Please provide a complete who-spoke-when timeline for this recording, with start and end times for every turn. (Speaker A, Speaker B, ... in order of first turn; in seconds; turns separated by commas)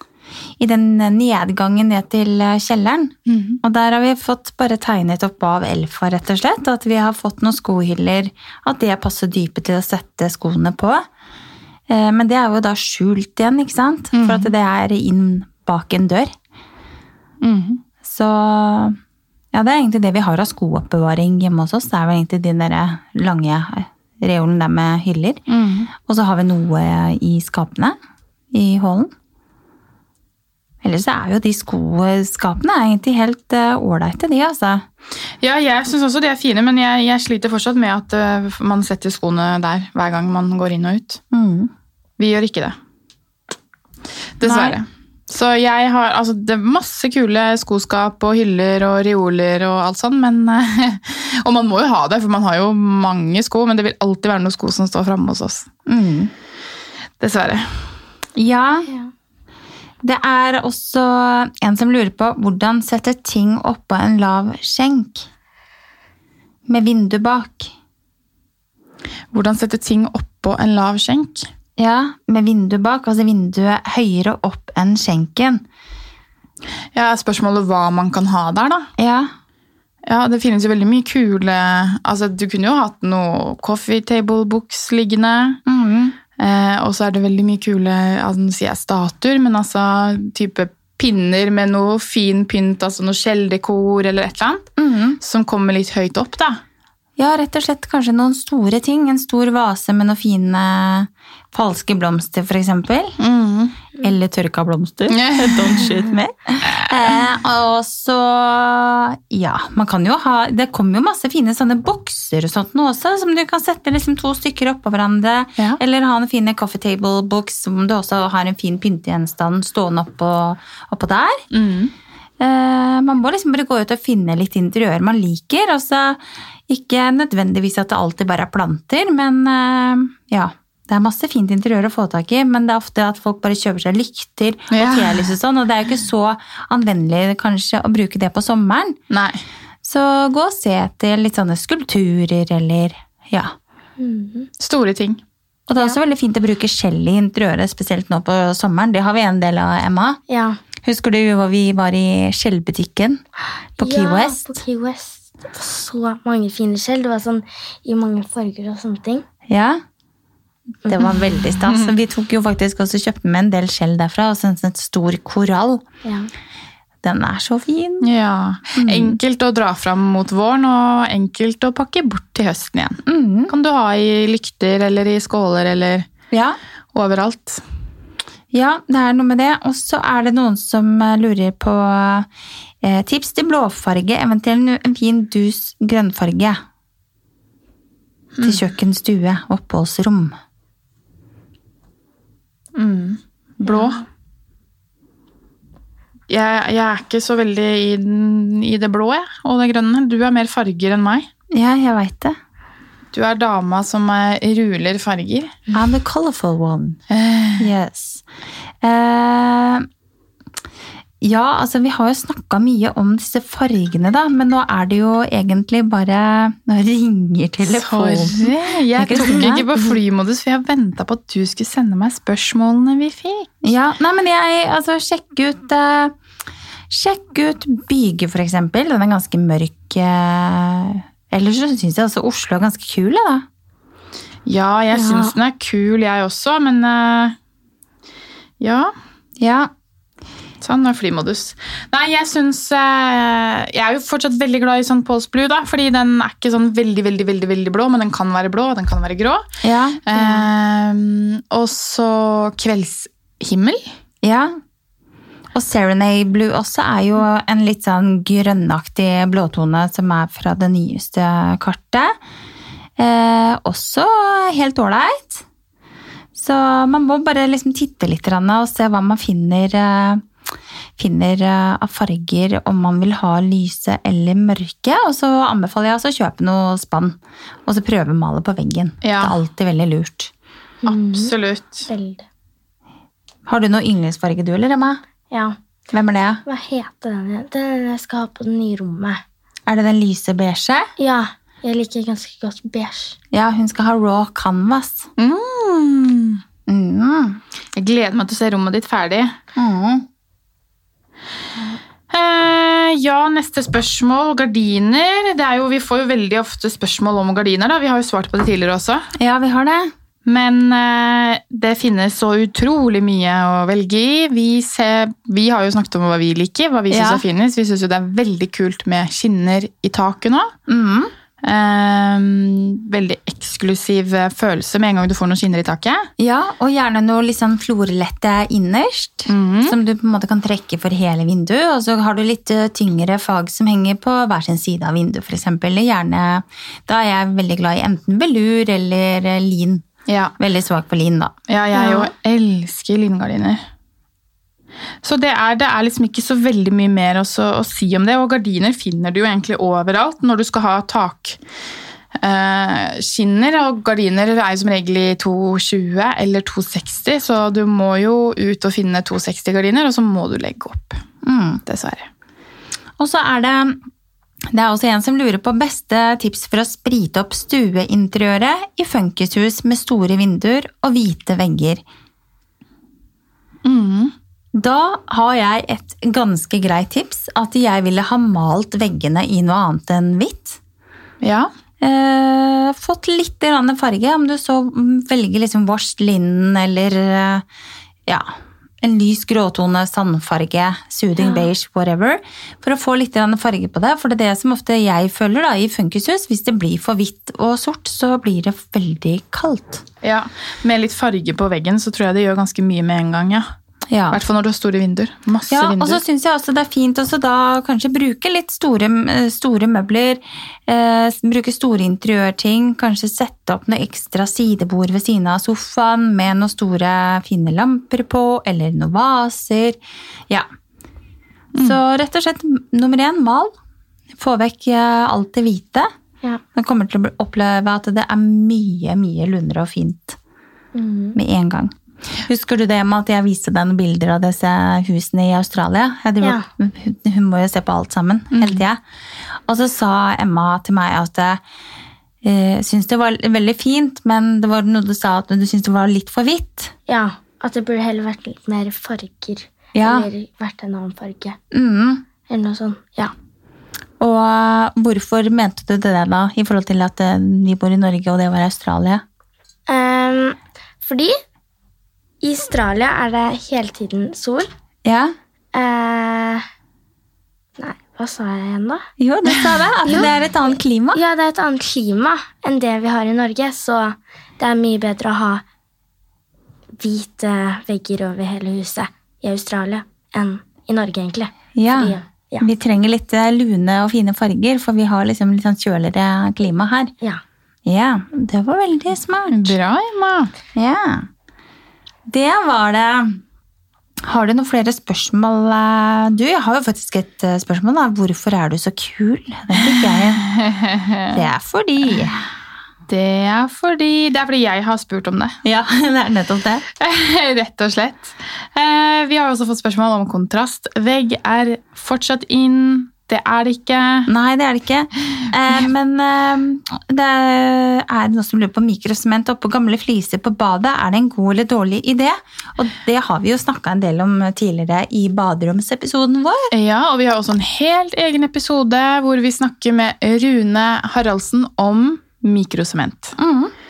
Speaker A: 0.6-11.0, Speaker B: 3.3-3.6, Speaker A: 11.9-16.3, Speaker B: 14.1-14.5, Speaker B: 17.4-17.8, Speaker A: 18.0-19.0, Speaker A: 19.5-25.4, Speaker B: 25.5-25.9, Speaker A: 25.9-27.9, Speaker A: 28.5-29.1, Speaker A: 30.8-34.8, Speaker B: 35.4-41.2, Speaker A: 41.3-41.7, Speaker B: 42.2-42.8, Speaker B: 44.4-55.7, Speaker A: 44.4-44.8, Speaker A: 55.9-56.3, Speaker B: 57.2-57.7, Speaker A: 58.4-58.9, Speaker A: 60.0-65.3, Speaker A: 66.7-67.7, Speaker B: 69.3-71.5, Speaker A: 71.8-75.6, Speaker B: 76.9-78.9, Speaker A: 79.0-79.3, Speaker B: 80.0-85.6, Speaker A: 85.7-86.2, Speaker B: 86.4-94.7, Speaker A: 94.8-95.2, Speaker B: 95.2-96.6, Speaker A: 97.2-103.2, Speaker B: 103.2-103.8, Speaker A: 104.0-121.4, Speaker B: 105.1-105.9, Speaker B: 121.5-121.9, Speaker A: 122.4-139.0, Speaker B: 134.7-135.3, Speaker B: 139.1-139.4, Speaker A: 139.8-143.5, Speaker C: 144.0-144.5, Speaker B: 144.6-145.2, Speaker A: 145.7-150.2, Speaker C: 150.3-150.6, Speaker A: 150.8-153.2, Speaker A: 153.8-154.6, Speaker C: 153.8-159.2, Speaker A: 159.5-159.8, Speaker A: 160.8-165.8, Speaker B: 161.6-161.9, Speaker C: 166.0-166.3, Speaker A: 167.0-168.1, Speaker B: 168.0-176.1, Speaker A: 168.7-169.2, Speaker A: 173.1-173.5, Speaker A: 176.3-176.6, Speaker B: 176.9-177.6, Speaker A: 178.5-182.3, Speaker A: 182.8-186.6, Speaker B: 188.3-188.6, Speaker A: 188.4-190.4, Speaker B: 192.8-194.0, Speaker C: 193.7-193.9, Speaker B: 196.3-201.3, Speaker A: 201.5-202.4, Speaker B: 203.1-205.6, Speaker A: 205.7-207.0, Speaker B: 207.1-207.7, Speaker A: 207.6-208.2, Speaker A: 208.8-209.9, Speaker A: 211.2-219.7, Speaker B: 217.7-223.5, Speaker A: 223.6-226.2, Speaker A: 226.9-233.4, Speaker B: 234.4-237.3, Speaker C: 234.9-235.3, Speaker B: 238.6-238.9, Speaker A: 239.4-239.7, Speaker B: 240.6-249.4, Speaker A: 249.6-250.4, Speaker B: 250.1-253.9, Speaker A: 254.2-254.5, Speaker A: 255.5-262.1, Speaker A: 263.0-265.4, Speaker A: 266.3-270.2, Speaker A: 271.0-280.3, Speaker B: 279.0-279.4, Speaker C: 280.8-281.3, Speaker B: 280.9-281.9, Speaker C: 281.9-282.2, Speaker A: 283.4-285.0, Speaker C: 285.3-285.6, Speaker A: 285.9-286.4, Speaker C: 286.4-289.2, Speaker A: 289.7-290.9, Speaker C: 291.0-293.2, Speaker A: 293.3-295.1, Speaker B: 295.2-296.4, Speaker A: 296.7-297.4, Speaker B: 297.8-299.3, Speaker A: 299.5-300.1, Speaker B: 302.1-309.1, Speaker A: 309.1-309.9, Speaker B: 310.2-320.5, Speaker A: 316.9-317.2, Speaker A: 320.7-321.1, Speaker B: 321.4-326.1, Speaker A: 326.2-339.8, Speaker B: 329.3-329.8, Speaker B: 340.1-340.3, Speaker A: 340.4-341.3, Speaker B: 341.5-343.6, Speaker C: 341.7-342.1, Speaker B: 345.0-351.4, Speaker B: 352.2-361.0, Speaker A: 361.2-361.6, Speaker B: 361.6-362.1, Speaker A: 363.0-363.8, Speaker A: 364.5-371.8, Speaker B: 373.6-374.1, Speaker A: 374.5-380.6, Speaker B: 381.2-381.5, Speaker A: 381.8-387.4, Speaker A: 388.8-399.8, Speaker B: 400.0-403.5, Speaker A: 403.9-404.2, Speaker B: 404.1-406.0, Speaker A: 405.5-420.5, Speaker B: 421.5-421.8, Speaker A: 421.6-423.5, Speaker A: 424.2-425.9, Speaker A: 426.5-430.2, Speaker C: 430.7-431.2, Speaker A: 431.1-431.7, Speaker A: 432.2-438.8, Speaker C: 436.2-436.4, Speaker B: 438.3-438.6, Speaker A: 439.5-441.4, Speaker A: 442.2-446.7, Speaker C: 446.9-451.4, Speaker A: 449.7-450.1, Speaker A: 451.5-452.0, Speaker C: 452.3-453.1, Speaker A: 454.0-459.0, Speaker C: 459.7-461.2, Speaker C: 462.2-464.5, Speaker A: 464.8-465.1, Speaker C: 465.5-466.4, Speaker C: 467.6-468.8, Speaker A: 469.0-471.0, Speaker C: 470.9-475.4, Speaker C: 476.8-482.5, Speaker A: 481.5-486.9, Speaker A: 487.6-489.5, Speaker B: 489.3-490.3, Speaker A: 490.5-491.1, Speaker A: 492.1-493.2, Speaker A: 494.0-500.2, Speaker B: 499.6-501.2, Speaker A: 501.1-502.2, Speaker B: 502.9-505.4, Speaker A: 505.4-506.6, Speaker B: 506.8-514.1, Speaker A: 514.1-526.5, Speaker B: 526.5-533.1, Speaker A: 533.2-533.5